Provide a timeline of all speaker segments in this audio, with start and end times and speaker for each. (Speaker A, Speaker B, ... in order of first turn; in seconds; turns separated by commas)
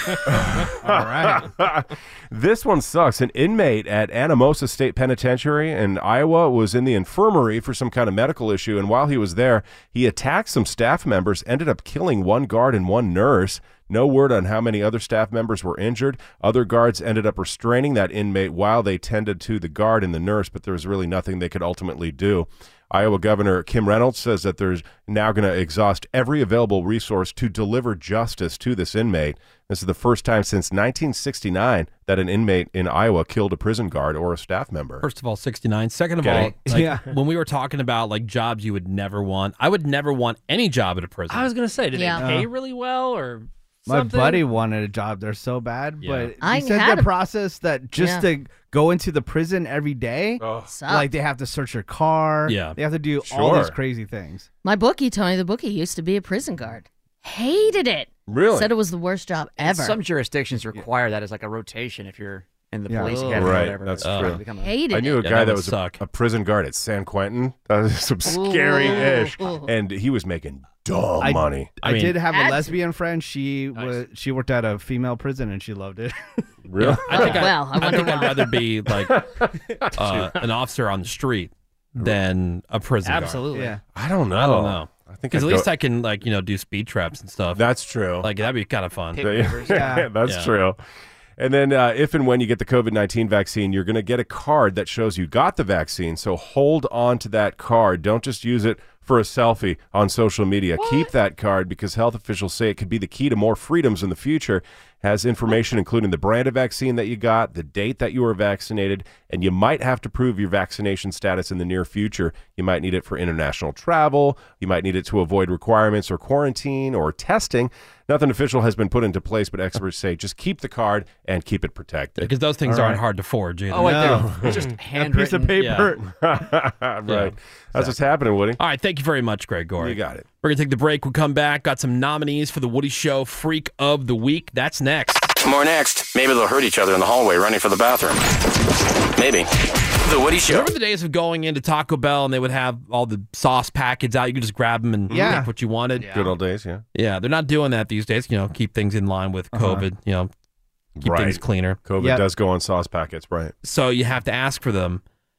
Speaker A: 0.2-35.1, Speaker B: 0.8-1.5, Speaker C: 35.0-41.5, Speaker A: 36.2-36.5, Speaker B: 36.4-37.1, Speaker D: 41.3-44.5, Speaker E: 41.9-42.2, Speaker B: 42.2-42.5, Speaker B: 43.9-54.5, Speaker C: 46.0-46.3, Speaker E: 46.4-47.1, Speaker E: 48.0-48.3, Speaker A: 50.4-50.6, Speaker E: 50.7-51.1, Speaker C: 52.5-52.8, Speaker A: 53.3-53.8, Speaker E: 54.6-60.0, Speaker A: 58.3-58.7, Speaker F: 59.6-64.8, Speaker B: 62.9-63.7, Speaker A: 63.3-71.7, Speaker C: 64.0-64.4, Speaker E: 64.6-65.2, Speaker C: 65.2-66.0, Speaker E: 68.3-69.7, Speaker B: 71.2-76.2, Speaker C: 71.8-72.2, Speaker E: 72.3-72.8, Speaker D: 73.7-74.0, Speaker A: 76.7-77.5, Speaker C: 76.8-79.2, Speaker E: 77.1-78.5, Speaker A: 79.1-80.3, Speaker C: 80.0-83.4, Speaker D: 83.0-83.8, Speaker B: 83.5-83.8, Speaker A: 83.9-85.7, Speaker C: 84.4-87.6, Speaker A: 87.5-88.3, Speaker C: 88.2-89.3, Speaker F: 89.2-89.9, Speaker A: 89.2-90.8, Speaker B: 89.6-90.1, Speaker C: 90.2-90.5, Speaker A: 91.4-122.3, Speaker C: 122.2-124.3, Speaker B: 122.7-123.0, Speaker F: 123.7-125.8, Speaker B: 123.8-126.0, Speaker A: 124.1-124.6, Speaker C: 125.6-125.9, Speaker A: 126.0-128.6, Speaker C: 127.1-127.9, Speaker C: 128.6-135.3, Speaker A: 129.8-130.2, Speaker G: 135.4-138.2, Speaker G: 139.2-139.5, Speaker G: 140.0-140.7, Speaker C: 140.4-146.1, Speaker B: 145.1-145.5, Speaker A: 145.1-145.4, Speaker D: 146.0-146.3, Speaker A: 146.1-146.8, Speaker C: 146.9-150.3, Speaker B: 149.5-149.9, Speaker A: 151.0-153.5, Speaker C: 151.0-151.8, Speaker C: 153.6-155.0